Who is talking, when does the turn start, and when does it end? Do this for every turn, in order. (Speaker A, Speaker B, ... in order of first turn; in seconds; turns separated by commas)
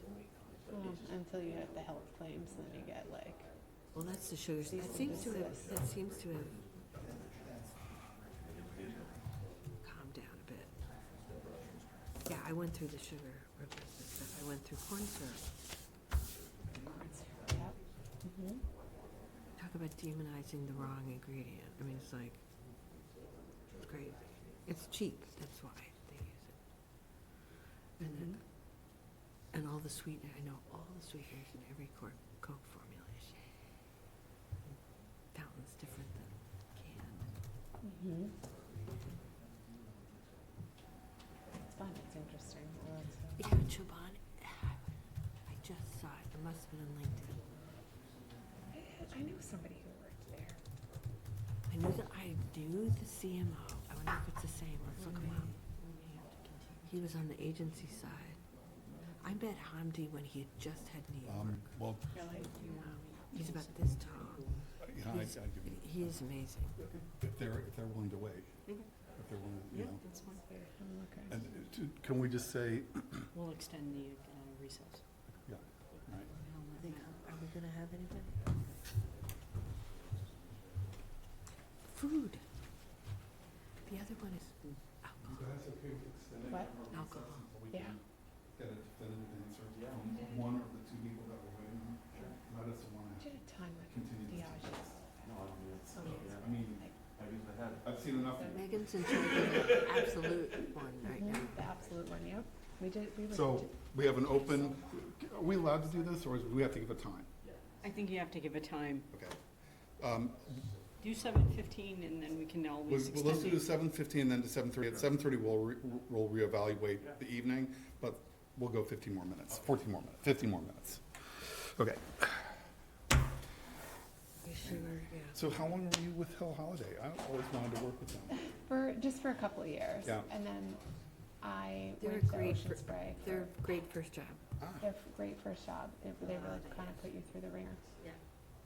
Speaker A: 0.7-3.5, Speaker B: 3.9-6.6, Speaker A: 4.7-5.7, Speaker B: 9.8-10.7, Speaker B: 12.3-15.4, Speaker A: 16.8-18.6, Speaker B: 19.6-22.4, Speaker B: 23.8-26.6, Speaker B: 28.0-28.4, Speaker B: 29.5-33.4, Speaker B: 35.3-37.3, Speaker A: 37.8-38.3, Speaker A: 41.6-43.5, Speaker B: 43.4-44.8, Speaker B: 45.5-47.4, Speaker A: 48.7-50.6, Speaker B: 51.7-55.5, Speaker C: 55.0-57.1, Speaker B: 56.9-58.4, Speaker B: 59.2-61.6, Speaker D: 61.2-62.0, Speaker C: 62.1-64.6, Speaker A: 62.2-62.5, Speaker B: 62.8-64.5, Speaker D: 64.8-66.3, Speaker B: 65.7-66.8, Speaker D: 67.1-68.5, Speaker D: 69.2-70.0, Speaker C: 69.7-70.4, Speaker A: 70.4-71.3, Speaker D: 71.3-73.3, Speaker C: 73.3-75.0, Speaker D: 75.5-76.3, Speaker C: 76.3-77.1, Speaker B: 76.8-78.4, Speaker B: 81.9-82.4, Speaker B: 83.9-85.4, Speaker D: 85.2-88.0, Speaker B: 86.9-87.5, Speaker D: 88.6-93.3, Speaker A: 93.2-95.3, Speaker D: 93.9-94.8, Speaker D: 96.4-96.9, Speaker D: 97.8-100.0, Speaker B: 98.5-101.5, Speaker A: 101.1-103.7, Speaker D: 103.3-107.3, Speaker C: 107.8-109.1, Speaker D: 109.1-109.4, Speaker D: 110.0-110.7, Speaker C: 111.0-113.7, Speaker D: 112.8-122.5, Speaker B: 124.4-125.4, Speaker D: 124.6-128.4, Speaker A: 128.4-130.8, Speaker A: 131.4-133.5, Speaker B: 132.0-134.4, Speaker D: 134.6-134.9, Speaker A: 134.8-137.8, Speaker B: 136.2-136.9